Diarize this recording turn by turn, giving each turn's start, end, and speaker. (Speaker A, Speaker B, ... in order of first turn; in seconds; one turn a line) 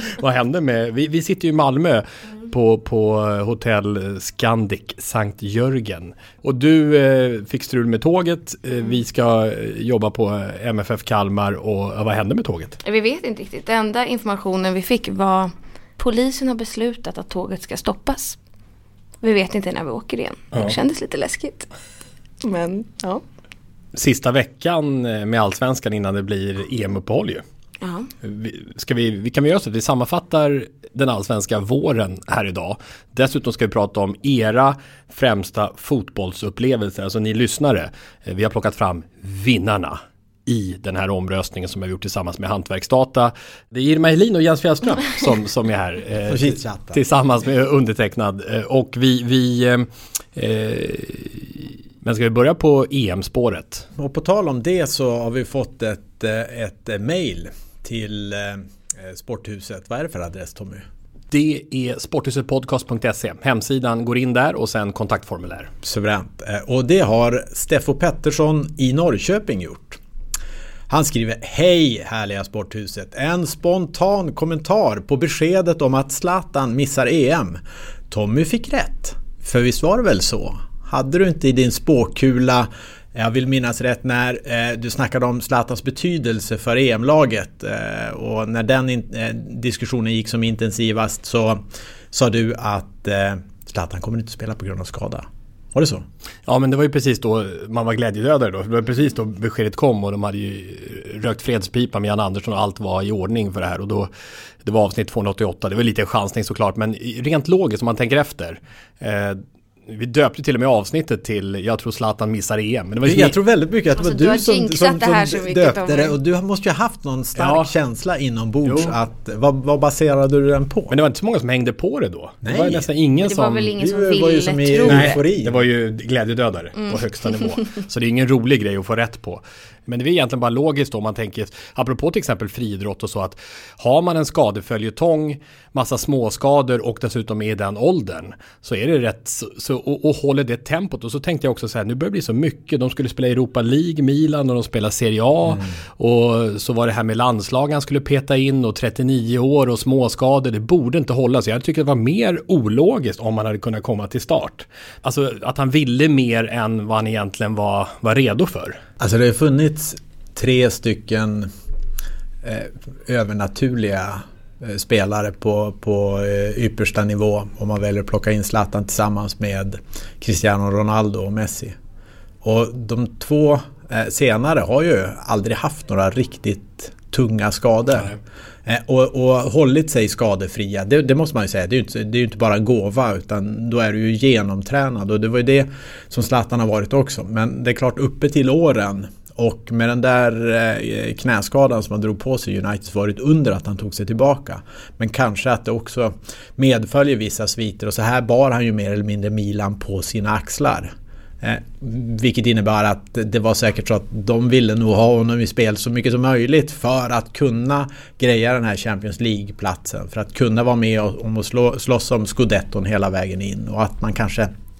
Speaker A: 0.2-12.8
Speaker B: 12.8-18.4
Speaker B: 19.2-21.7
Speaker B: 22.4-23.2
Speaker A: 23.9-27.4
Speaker B: 27.8-28.1
Speaker A: 28.2-53.9
Speaker C: 46.2-47.0
Speaker C: 54.0-60.9
Speaker A: 61.3-65.7
Speaker C: 65.8-70.0
Speaker C: 70.9-96.0
Speaker A: 96.5-104.1
Speaker A: 104.6-113.3
Speaker C: 113.0-120.9
Speaker B: 114.0-116.2
Speaker A: 117.4-117.7
Speaker A: 118.6-119.0
Speaker A: 120.9-123.7
Speaker C: 122.4-122.9
Speaker B: 123.2-125.2
Speaker C: 123.8-125.6
Speaker A: 124.8-158.8
Speaker B: 126.8-127.3
Speaker C: 145.4-145.7
Speaker C: 159.0-161.5
Speaker C: 162.4-171.7
Speaker C: 172.4-178.1
Speaker C: 178.7-214.5